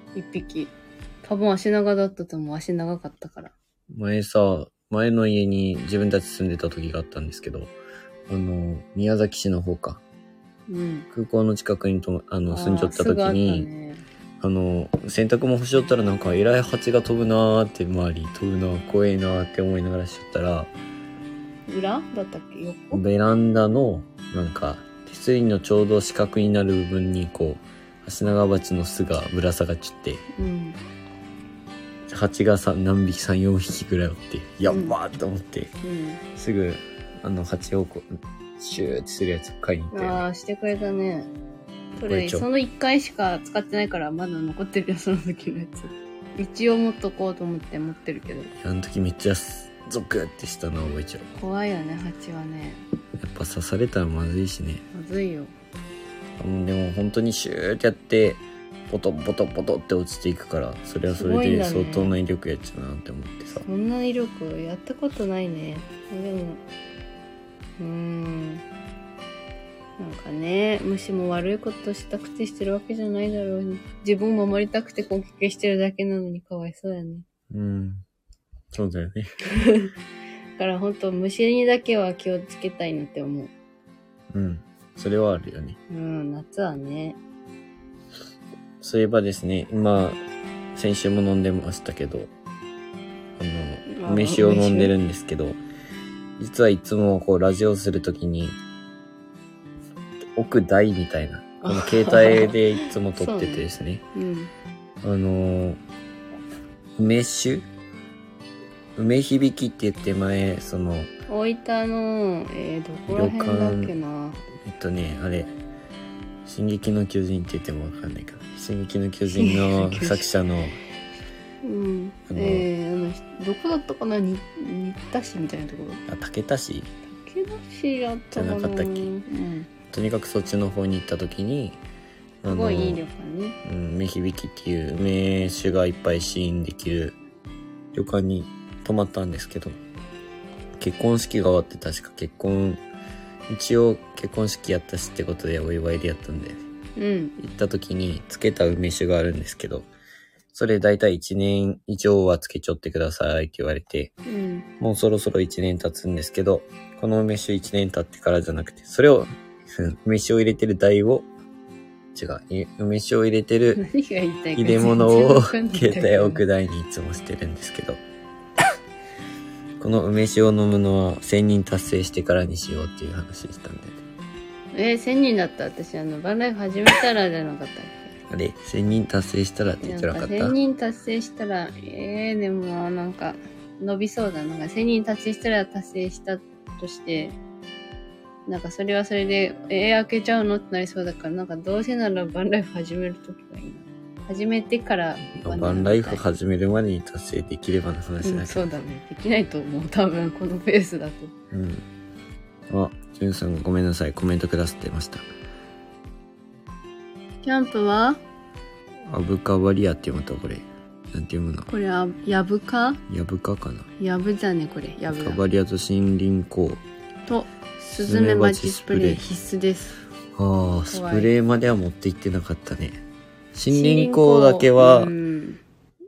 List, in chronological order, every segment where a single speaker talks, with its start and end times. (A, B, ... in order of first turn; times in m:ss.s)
0:00.2-0:03.5 A
0:03.9-0:07.7 B
0:08.3-0:10.0 B
0:10.7-0:11.1 A
0:11.1-0:13.7 B
0:12.5-0:14.0 A
0:14.4-0:20.7 B
0:21.7-0:23.0 A
0:22.9-0:30.3 B
0:30.4-0:30.8 A
0:32.1-0:35.7 B
0:34.7-0:35.0 A
0:35.8-0:36.2 A
0:36.4-0:40.2 B
0:39.9-0:41.3 A
0:42.0-0:48.5 A
0:42.0-0:42.5 B
0:48.6-0:51.3 B
0:51.4-0:52.8 A
0:53.2-0:54.8 B
0:54.9-0:55.5 A
0:56.4-1:03.7 B
1:01.1-1:02.2 A
1:03.7-1:06.6 A
1:07.8-1:08.6 A
1:10.0-1:17.3 A
1:17.5-1:18.0 B
1:18.7-1:19.3 B
1:19.5-1:19.9 A
1:20.6-1:23.5 A
1:24.3-1:25.8 B
1:25.9-1:27.2 A
1:28.8-1:30.2 B
1:30.8-1:32.3 B
1:33.4-1:35.6 B
1:33.9-1:34.9 A
1:36.4-1:38.6 B
1:40.4-1:44.0 B
1:41.6-1:44.5 A
1:45.0-1:45.8 B
1:47.0-1:47.7 B
1:49.0-1:51.1 B
1:51.3-1:54.4 A
1:53.1-1:53.9 B
1:54.6-1:55.5 B
1:56.4-2:00.8 B
1:59.3-2:00.3 A
2:01.6-2:06.0 A
2:02.3-2:02.7 B
2:06.1-2:06.9 B
2:07.1-2:09.7 A
2:08.3-2:09.1 B
2:09.9-2:11.8 B
2:12.4-2:13.0 B
2:12.5-2:13.6 A
2:13.6-2:17.2 B
2:17.9-2:19.8 B
2:20.8-2:22.8 B
2:23.5-2:26.6 B
2:27.0-2:27.4 A
2:27.4-2:29.9 B
2:30.5-2:34.2 B
2:34.3-2:34.7 A
2:34.8-2:41.3 B
2:42.1-2:43.8 B
2:43.8-2:46.4 A
2:44.6-2:48.0 B
2:49.8-2:54.0 B
2:54.7-2:58.2 A
2:58.3-3:00.6 B
2:59.8-3:07.4 A
3:08.5-3:16.2 A
3:15.4-3:18.7 B
3:18.2-3:21.3 A
3:21.5-3:21.8 B
3:22.7-3:25.3 B
3:27.4-3:28.2 A
3:29.1-3:31.7 B
3:31.7-3:33.0 A
3:33.1-3:33.9 B
3:34.0-3:35.4 A
3:35.1-3:36.8 B
3:37.3-3:40.0 A
3:37.8-3:39.2 B
3:40.4-3:43.0 B
3:40.9-3:41.3 A
3:43.5-3:45.1 B
3:43.7-3:45.6 A